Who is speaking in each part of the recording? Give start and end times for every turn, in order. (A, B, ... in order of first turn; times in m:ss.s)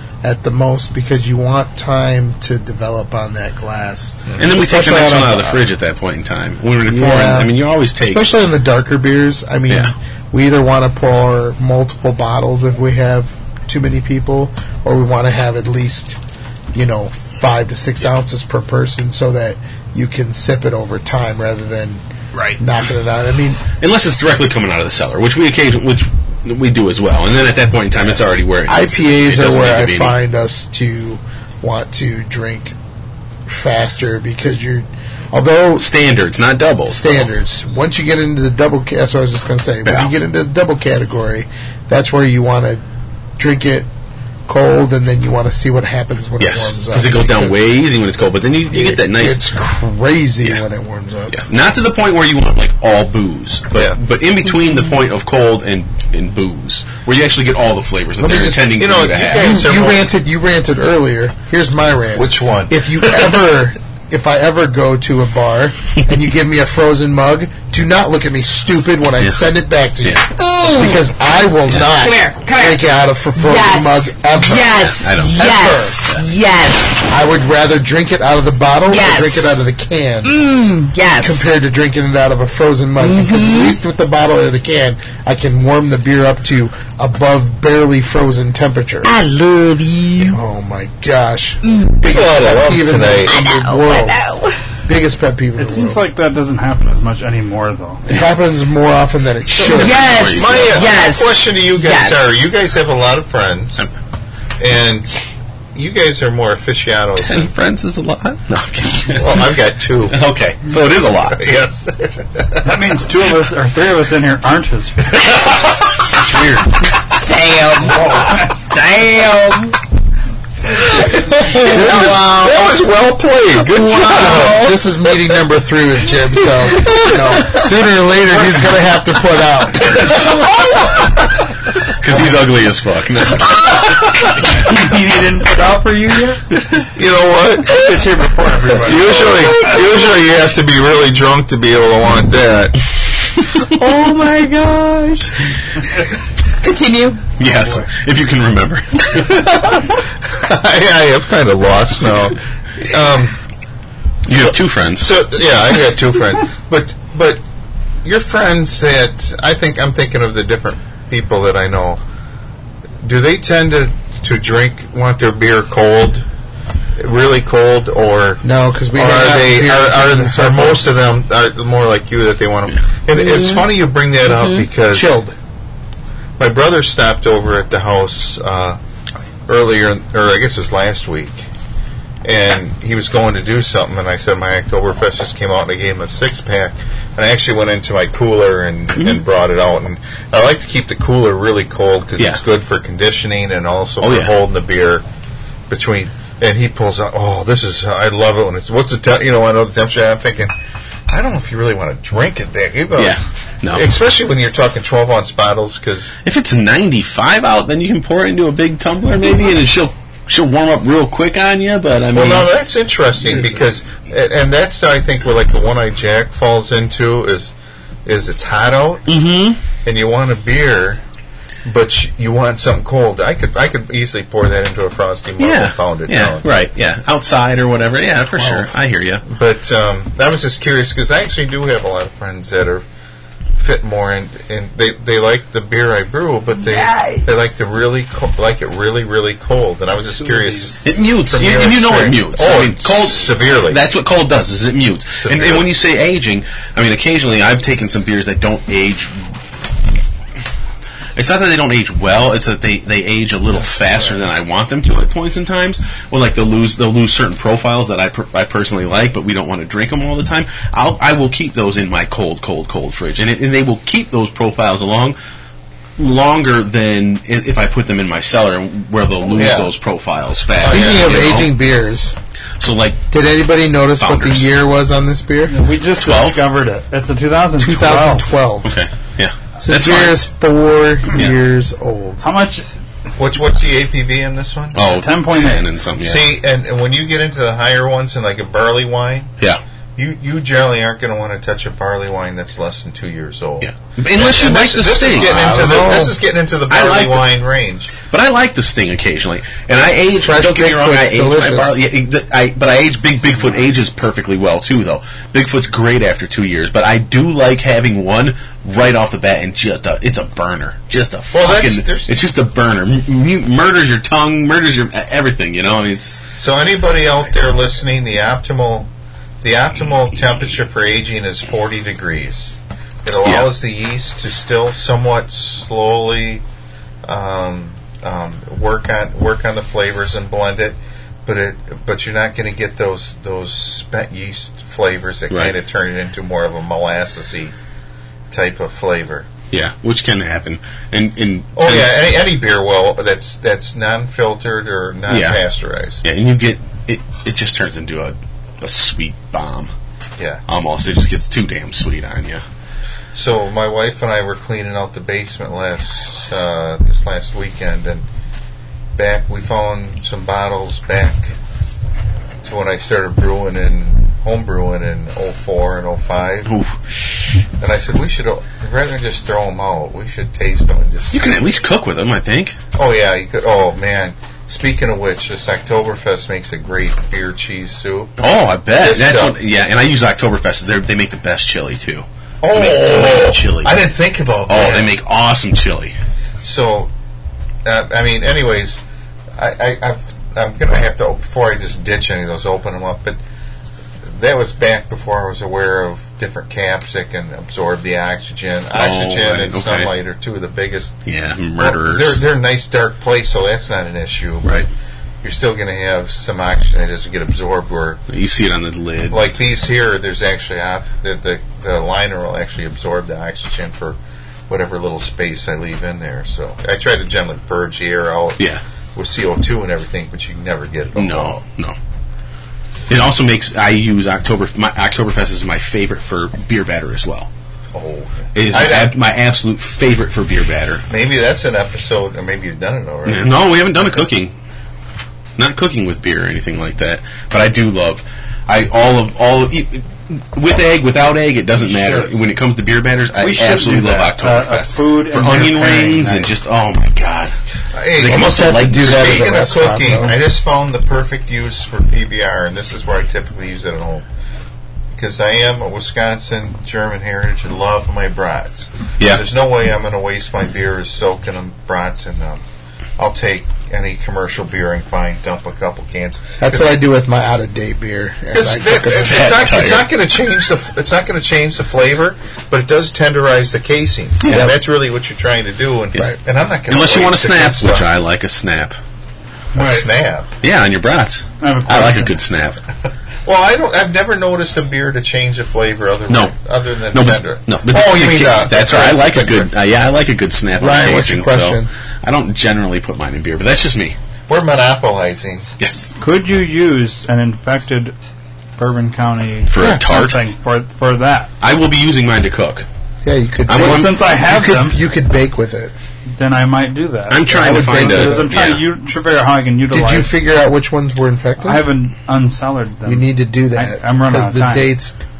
0:00.2-0:05.6 A
0:04.4-0:08.4 B
0:06.9-0:16.2 A
0:16.7-0:22.0 A
0:22.3-0:22.6 B
0:22.6-0:23.6 A
0:23.8-0:30.2 B
0:28.7-0:32.7 A
0:33.4-0:35.9 A
0:35.8-0:37.3 B
0:36.9-0:42.8 A
0:39.8-0:40.1 B
0:43.4-0:43.9 A
0:44.5-0:47.8 A
0:46.4-0:49.5 B
0:48.7-0:51.4 A
0:51.3-0:59.4 B
0:58.2-0:58.6 A
0:58.6-1:00.1 C
0:59.4-1:16.0 A
1:02.2-1:03.0 C
1:10.4-1:11.0 D
1:11.9-1:17.0 D
1:14.8-1:15.4 B
1:17.1-1:20.4 A
1:18.9-1:19.6 D
1:20.2-1:21.5 D
1:21.2-1:29.1 A
1:23.0-1:23.8 D
1:29.0-1:30.4 D
1:30.2-1:34.2 A
1:31.6-1:32.2 D
1:32.0-1:33.3 C
1:33.2-1:34.6 D
1:34.9-1:36.0 A
1:35.6-1:38.0 E
1:38.0-1:40.2 A
1:39.6-1:40.9 B
1:39.6-1:42.4 D
1:40.3-1:43.8 C
1:44.6-1:45.2 C
1:45.7-1:47.5 C
1:47.2-1:49.4 B
1:49.0-1:50.2 C
1:50.1-1:51.4 B
1:51.3-1:52.7 C
1:52.6-1:55.4 E
1:57.0-1:59.8 D
2:00.8-2:02.8 D
2:01.5-2:04.6 C
2:03.6-2:04.8 D
2:04.1-2:10.1 A
2:06.7-2:07.7 D
2:10.4-2:11.0 D
2:12.0-2:14.0 B
2:14.2-2:16.6 E
2:16.9-2:18.0 C
2:17.7-2:19.7 E
2:18.8-2:22.8 C
2:19.0-2:20.1 D
2:23.6-2:25.5 D
2:26.6-2:27.3 D
2:27.4-2:29.3 B
2:27.4-2:27.9 E
2:29.2-2:33.4 C
2:34.2-2:35.1 B
2:34.3-2:37.4 C
2:38.0-2:42.0 C
2:43.0-2:46.3 C
2:47.0-2:48.4 C
2:48.4-2:50.9 A
2:48.9-2:55.2 C
2:53.1-2:53.7 D
2:54.2-2:54.7 D
2:54.9-2:55.3 A
2:56.4-2:58.8 C
2:59.5-3:01.5 C
3:02.2-3:15.0 C
3:09.0-3:09.2 B
3:14.0-3:14.3 B
3:15.7-3:20.5 C
3:21.1-3:23.2 C
3:23.0-3:23.9 B
3:23.7-3:26.1 C
3:26.2-3:32.5 B
3:32.1-3:37.5 C
3:38.0-3:39.1 C
3:39.1-3:39.6 B
3:39.8-3:41.0 C
3:41.6-3:46.5 C
3:45.4-3:49.2 B
3:48.4-3:48.7 A
3:49.2-3:52.8 C
3:53.6-4:03.8 C
3:56.7-3:57.4 D
4:00.2-4:00.8 E
4:00.8-4:09.3 B
4:05.1-4:05.7 C
4:11.2-4:25.2 B
4:26.0-4:31.5 B
4:29.2-4:29.7 C
4:30.6-4:31.3 C
4:30.6-4:32.1 A
4:32.6-4:33.0 B
4:33.1-4:35.7 A
4:34.0-4:34.5 B
4:35.5-4:38.3 E
4:36.0-4:36.4 B
4:37.6-4:38.7 A
4:38.6-4:40.2 B
4:39.6-4:42.2 A
4:42.2-4:42.6 E
4:43.2-4:44.9 C
4:44.7-4:46.3 B
4:44.9-4:45.7 E
4:46.0-4:49.3 C
4:50.0-4:57.9 C
4:53.6-4:55.7 B
4:55.2-4:56.1 A
4:56.7-4:57.3 B
4:58.1-5:16.2 B
5:00.2-5:01.8 A
5:11.3-5:12.2 C
5:16.4-5:18.9 C
5:19.4-5:26.4 C
5:27.0-5:37.5 C
5:35.3-5:35.5 B
5:38.3-5:39.3 C
5:39.5-5:42.0 B
5:41.6-5:46.0 C
5:45.1-5:45.4 B
5:46.0-5:49.7 B
5:50.5-5:52.4 B
5:53.1-5:58.0 C
5:58.9-6:01.4 C
6:02.4-6:06.5 C
6:06.4-6:06.7 B
6:07.6-6:11.3 C
6:11.1-6:12.6 B
6:12.7-6:18.1 C
6:18.2-6:23.8 B
6:18.7-6:19.4 C
6:22.4-6:24.9 C
6:24.5-6:25.9 B
6:26.4-6:26.9 C
6:27.6-6:28.8 C
6:29.3-6:33.2 C
6:34.0-6:41.0 C
6:38.7-6:39.9 B
6:41.0-6:42.2 B
6:41.6-6:44.7 C
6:45.2-6:48.0 C
6:48.1-6:49.3 B
6:49.1-6:54.0 C
6:54.5-7:01.4 C
7:00.9-7:01.8 B
7:02.9-7:07.3 B
7:07.7-7:09.0 C
7:08.3-7:10.9 B
7:10.9-7:13.3 C
7:13.0-7:14.3 B
7:15.4-7:27.3 B
7:21.6-7:22.1 E
7:23.2-7:26.3 E
7:27.7-7:34.0 C
7:28.0-7:29.3 B
7:28.0-7:30.2 A
7:34.9-7:42.4 C
7:43.0-7:46.8 C
7:46.4-7:49.4 A
7:48.3-7:57.9 C
7:48.9-7:49.9 B
7:56.7-7:58.8 B
7:59.5-7:59.9 E
7:59.5-8:00.3 C
8:00.4-8:02.6 B
8:01.4-8:02.2 E
8:03.2-8:09.5 C
8:06.1-8:06.3 B
8:06.9-8:14.0 B
8:10.6-8:11.7 A
8:14.3-8:15.5 C
8:15.6-8:15.9 B
8:16.0-8:17.9 E
8:18.6-8:21.3 E
8:19.5-8:20.2 B
8:19.6-8:19.8 A
8:21.4-8:22.6 B
8:23.0-8:25.7 A
8:23.5-8:24.0 B
8:23.5-8:24.8 E
8:26.1-8:30.1 E
8:27.1-8:28.7 B
8:27.3-8:28.5 A
8:29.7-8:31.7 A
8:31.4-8:34.8 E
8:32.8-8:35.0 A